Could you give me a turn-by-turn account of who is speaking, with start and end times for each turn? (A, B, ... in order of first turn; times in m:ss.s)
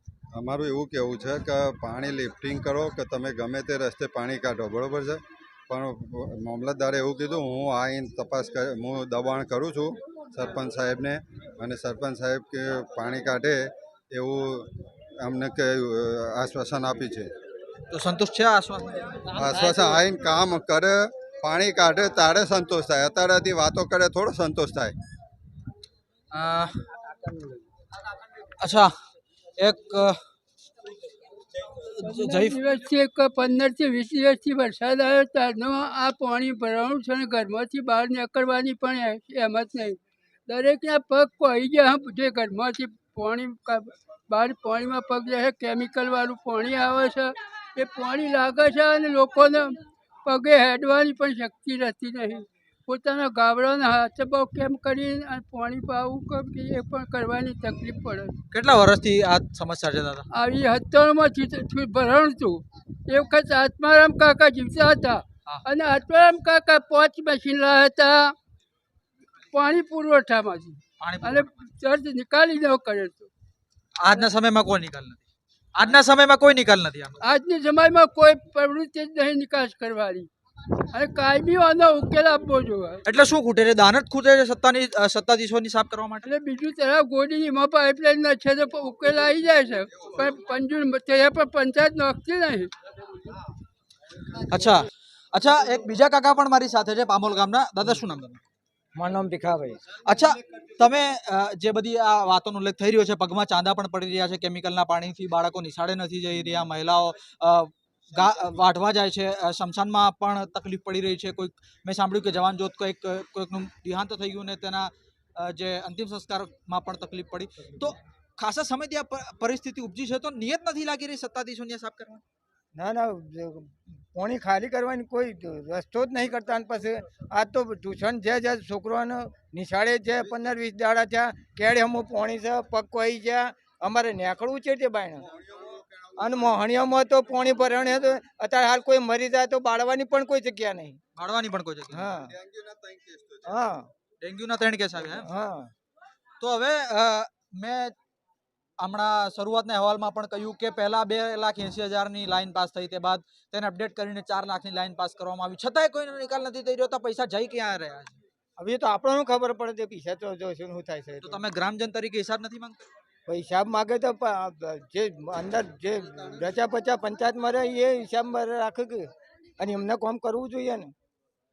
0:00.3-0:17.3 A
0:17.9-0:19.2 B
0:19.3-0:25.0 A
0:26.3-0:26.8 B
0:28.6-0:28.9 B
0:29.6-0:30.2 B
0:31.8-0:32.6 B
0:32.0-0:58.4 C
0:58.5-1:00.3 B
1:00.3-1:08.4 C
1:09.5-1:13.3 C
1:11.0-1:11.5 B
1:14.0-1:15.2 B
1:15.8-1:17.2 B
1:17.2-1:20.3 C
1:20.9-1:23.0 C
1:23.1-1:26.3 B
1:26.2-1:32.7 C
1:34.4-1:38.4 B
1:39.0-1:39.8 D
1:40.0-2:02.2 B
2:02.8-2:15.3 D
2:16.2-2:21.0 D
2:21.2-2:22.1 B
2:21.9-2:22.3 D
2:22.4-2:23.3 A
2:23.4-2:23.9 D
2:24.2-2:25.3 B
2:25.2-2:25.7 D
2:26.4-2:27.9 B
2:28.8-2:38.2 B
2:38.6-2:41.4 D
2:41.2-2:42.8 B
2:43.3-2:50.9 D